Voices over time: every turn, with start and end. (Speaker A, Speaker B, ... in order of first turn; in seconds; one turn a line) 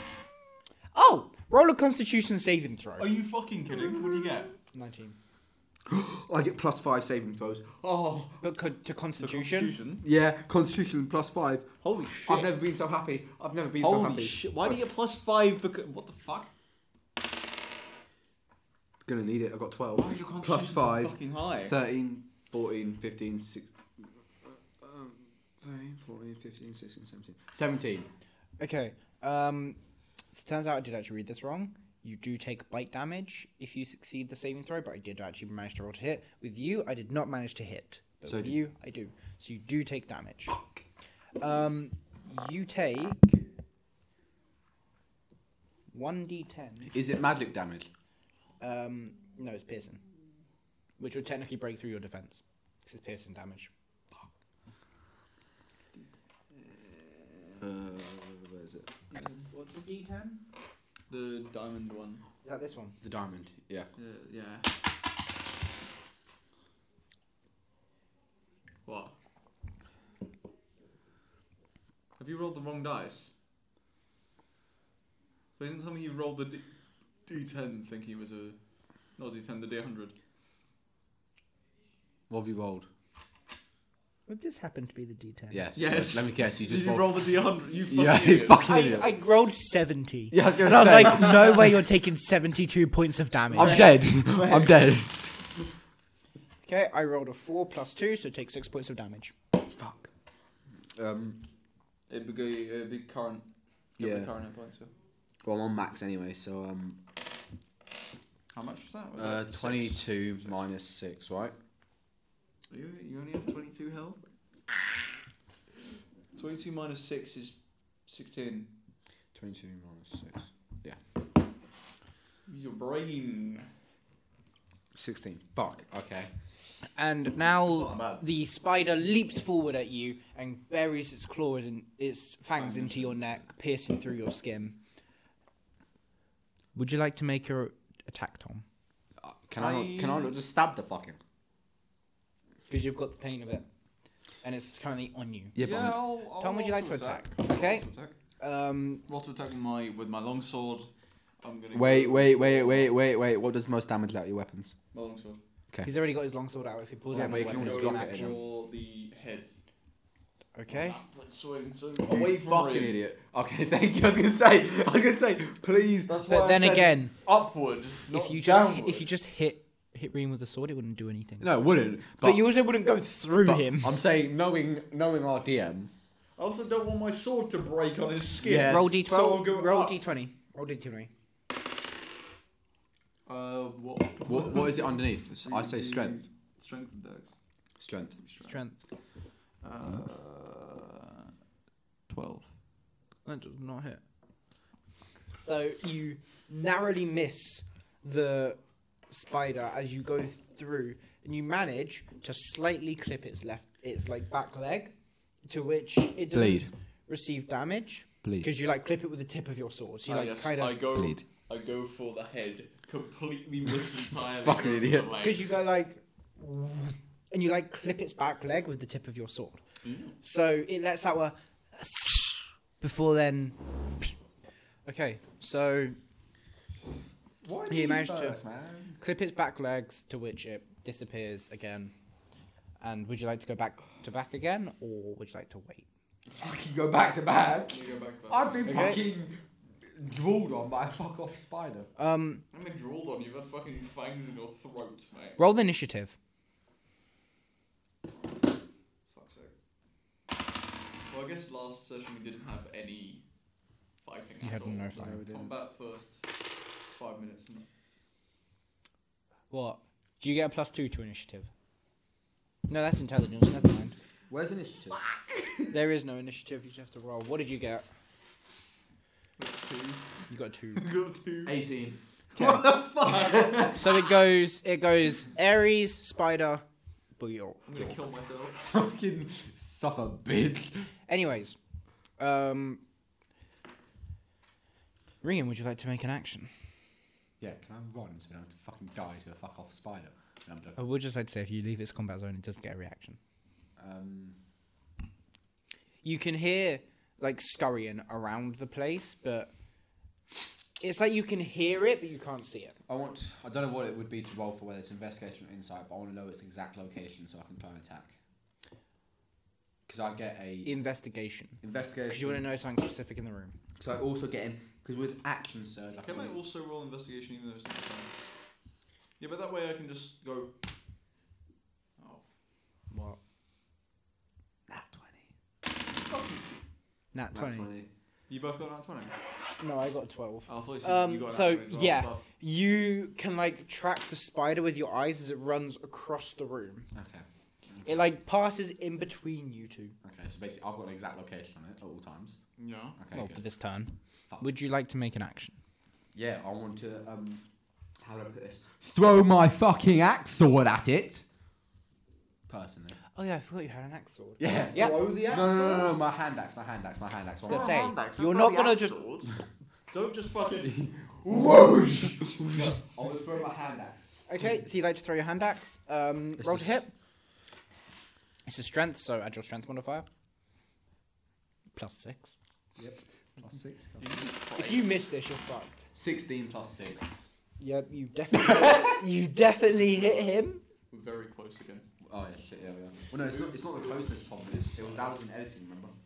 Speaker A: 0.9-3.1
Speaker B: 3.0-4.5
Speaker A: 4.7-5.2
Speaker C: 5.9-8.4
Speaker A: 8.4-9.7
Speaker B: 9.2-10.0
Speaker C: 10.0-11.7
Speaker B: 11.8-12.5
Speaker C: 12.2-14.8
Speaker B: 13.8-16.5
Speaker C: 19.0-28.1
Speaker B: 19.9-21.8
Speaker A: 28.6-29.8
Speaker A: 30.3-40.6
Speaker C: 38.2-38.6
Speaker C: 40.5-40.8
Speaker A: 41.4-43.4
Speaker A: 45.9-46.9
Speaker C: 46.9-47.9
Speaker A: 48.6-50.0
Speaker A: 51.0-53.7
Speaker B: 56.6-57.5
Speaker C: 57.6-58.9
Speaker B: 59.1-59.4
Speaker A: 59.4-60.4
Speaker B: 61.1-62.2
Speaker A: 62.4-63.0
Speaker C: 63.0-63.9
Speaker B: 64.0-64.7
Speaker B: 68.8-69.1
Speaker B: 72.2-73.3
Speaker B: 75.6-80.1
Speaker C: 82.3-82.9
Speaker A: 84.3-85.6
Speaker C: 85.5-89.1
Speaker B: 85.7-88.6
Speaker A: 88.6-93.9
Speaker C: 90.3-91.8
Speaker C: 93.5-95.3
Speaker B: 93.5-95.0
Speaker A: 96.6-99.3
Speaker C: 99.7-100.1
Speaker C: 100.8-101.4
Speaker B: 102.1-104.9
Speaker C: 104.0-104.3
Speaker C: 105.4-107.0
Speaker B: 108.5-110.5
Speaker C: 109.2-111.5
Speaker B: 112.7-114.2
Speaker B: 116.3-118.7
Speaker C: 119.3-121.0
Speaker B: 122.5-123.7
Speaker C: 124.9-126.3
Speaker A: 127.0-134.8
Speaker B: 127.4-128.2
Speaker B: 132.6-133.4
Speaker A: 136.7-138.6
Speaker C: 139.2-141.2
Speaker B: 139.6-140.3
Speaker A: 142.7-143.6
Speaker A: 144.4-145.6
Speaker C: 145.5-146.0
Speaker B: 145.6-148.1
Speaker A: 146.4-147.9
Speaker A: 148.4-149.0
Speaker B: 149.1-152.9
Speaker C: 151.7-154.8
Speaker B: 154.9-155.4
Speaker A: 155.8-158.4
Speaker C: 157.1-158.4
Speaker B: 157.1-159.5
Speaker A: 160.5-161.0
Speaker B: 160.7-163.0
Speaker C: 162.0-166.1
Speaker B: 166.1-169.1
Speaker A: 166.3-167.1
Speaker A: 168.1-171.5
Speaker C: 171.4-172.5
Speaker A: 172.2-173.9
Speaker C: 173.4-175.9
Speaker B: 176.4-180.0
Speaker C: 178.4-179.0
Speaker A: 178.5-181.1
Speaker B: 183.2-187.3
Speaker C: 184.2-186.2
Speaker C: 187.8-188.2
Speaker B: 188.2-188.6
Speaker A: 188.4-188.8
Speaker B: 189.6-191.3
Speaker B: 192.1-192.5
Speaker A: 193.2-194.0
Speaker A: 195.4-210.9
Speaker C: 206.3-206.7
Speaker C: 208.2-208.5
Speaker B: 210.1-215.5
Speaker C: 210.9-211.2
Speaker C: 214.4-215.1
Speaker A: 215.2-219.6
Speaker B: 219.8-220.1
Speaker A: 220.2-224.1
Speaker A: 224.8-226.0
Speaker C: 227.4-229.0
Speaker A: 227.7-228.4
Speaker A: 229.0-231.9
Speaker A: 232.8-235.8
Speaker C: 236.3-241.9
Speaker B: 237.7-238.6
Speaker A: 238.6-239.0
Speaker A: 242.0-242.4
Speaker B: 242.5-245.4
Speaker A: 245.4-246.1
Speaker B: 249.1-249.5
Speaker B: 251.1-253.2
Speaker B: 254.0-256.3
Speaker A: 254.4-255.2
Speaker C: 254.9-255.5
Speaker B: 256.9-257.7
Speaker A: 259.5-261.5
Speaker A: 262.7-263.9
Speaker C: 264.3-265.7
Speaker A: 265.7-267.8
Speaker B: 269.4-271.6
Speaker A: 270.3-270.8
Speaker C: 271.4-274.0
Speaker A: 272.4-272.6
Speaker B: 273.0-273.7
Speaker A: 273.7-276.6
Speaker A: 277.2-277.7
Speaker B: 277.7-278.6
Speaker C: 278.6-280.9
Speaker A: 281.1-281.6
Speaker A: 282.2-282.8
Speaker A: 285.2-286.5
Speaker C: 287.4-290.8
Speaker A: 290.8-293.2
Speaker C: 293.8-294.4
Speaker A: 296.0-299.5
Speaker A: 300.8-302.8
Speaker C: 302.9-308.1
Speaker C: 309.9-310.7
Speaker A: 310.6-313.6
Speaker C: 311.6-312.4
Speaker C: 313.8-316.4
Speaker B: 316.0-318.1
Speaker B: 319.2-320.5
Speaker B: 322.0-322.2
Speaker A: 322.9-323.2
Speaker C: 324.7-325.3
Speaker B: 325.9-326.4
Speaker A: 327.1-327.7
Speaker C: 327.3-327.9
Speaker B: 328.3-329.1
Speaker A: 329.6-336.9
Speaker B: 330.5-332.2
Speaker C: 336.9-338.0
Speaker A: 337.8-339.9
Speaker C: 340.0-342.4
Speaker B: 342.6-343.0
Speaker C: 342.9-343.4
Speaker A: 343.1-345.6
Speaker C: 346.1-347.4
Speaker C: 348.0-351.2
Speaker C: 352.5-353.0
Speaker A: 353.1-355.0
Speaker C: 354.4-357.8
Speaker B: 354.8-356.0
Speaker B: 357.4-359.3
Speaker A: 357.5-359.0
Speaker B: 359.9-360.7
Speaker C: 360.6-364.6
Speaker A: 364.3-366.9
Speaker C: 366.4-366.7
Speaker A: 368.5-370.1
Speaker A: 371.7-372.3
Speaker C: 372.8-374.1
Speaker B: 374.0-374.9
Speaker A: 374.6-375.9
Speaker C: 375.9-377.1
Speaker A: 377.6-380.6
Speaker B: 380.9-381.9
Speaker C: 382.0-385.9
Speaker B: 383.1-385.2